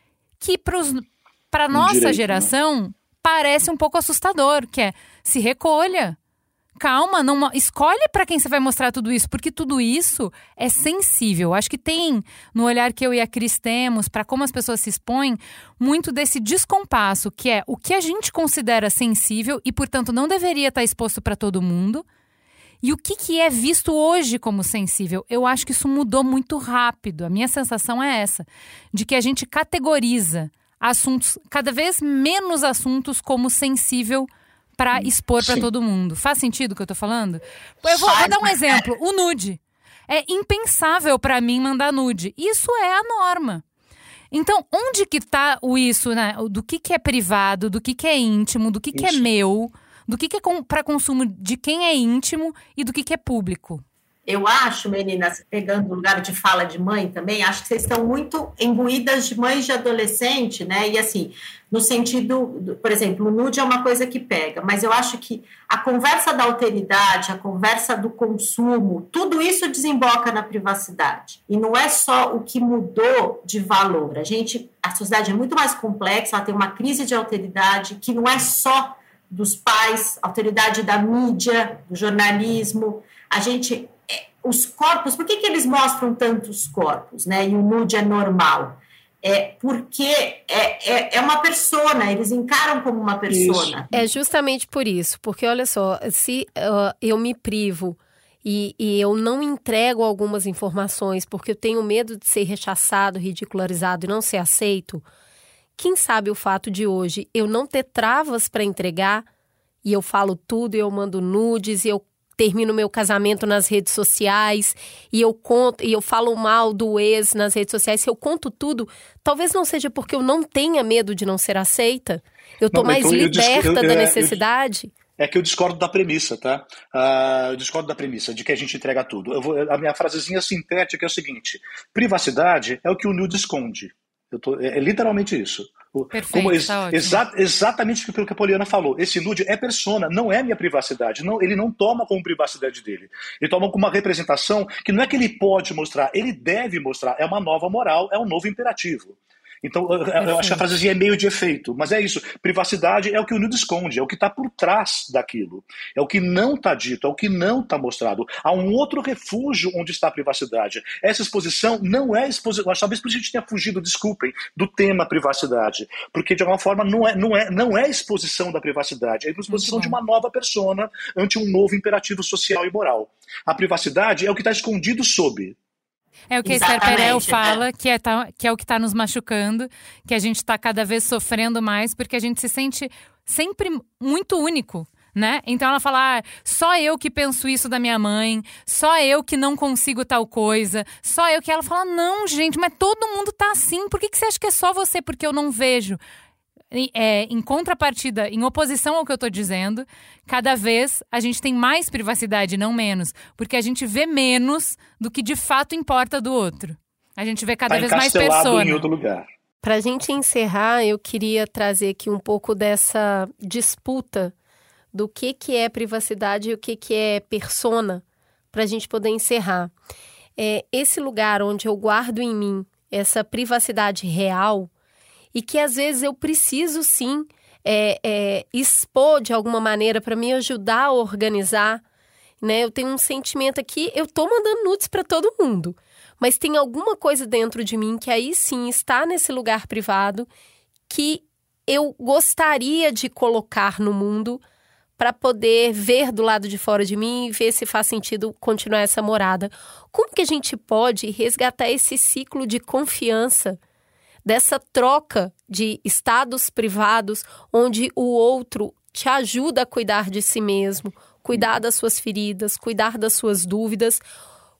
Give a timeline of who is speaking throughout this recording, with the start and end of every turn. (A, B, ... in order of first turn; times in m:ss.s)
0:00.4-0:06.2 A
0:01.7-0:02.5 B
0:06.8-0:22.0 A
0:22.8-0:43.6 A
0:34.9-0:35.7 B
0:37.8-0:38.8 C
0:44.3-0:53.8 A
0:48.9-0:49.3 B
0:54.3-1:33.9 C
1:33.3-1:33.8 B
1:33.9-1:45.0 D
1:45.8-1:49.2 D
1:49.8-2:04.9 D
2:02.7-2:04.4 B
2:05.2-2:55.6 B
2:16.1-2:17.2 A
2:30.2-2:30.6 A
2:49.5-2:50.0 A
2:56.3-3:16.0 A
2:56.4-2:57.6 C
3:16.7-3:28.8 A
3:27.7-3:29.3 B
3:29.6-3:34.3 D
3:34.9-3:39.7 D
3:40.4-3:44.7 D
3:45.3-3:51.8 D
3:52.4-4:00.3 D
4:00.9-4:04.4 D
4:05.0-4:13.6 D
4:14.2-4:24.0 D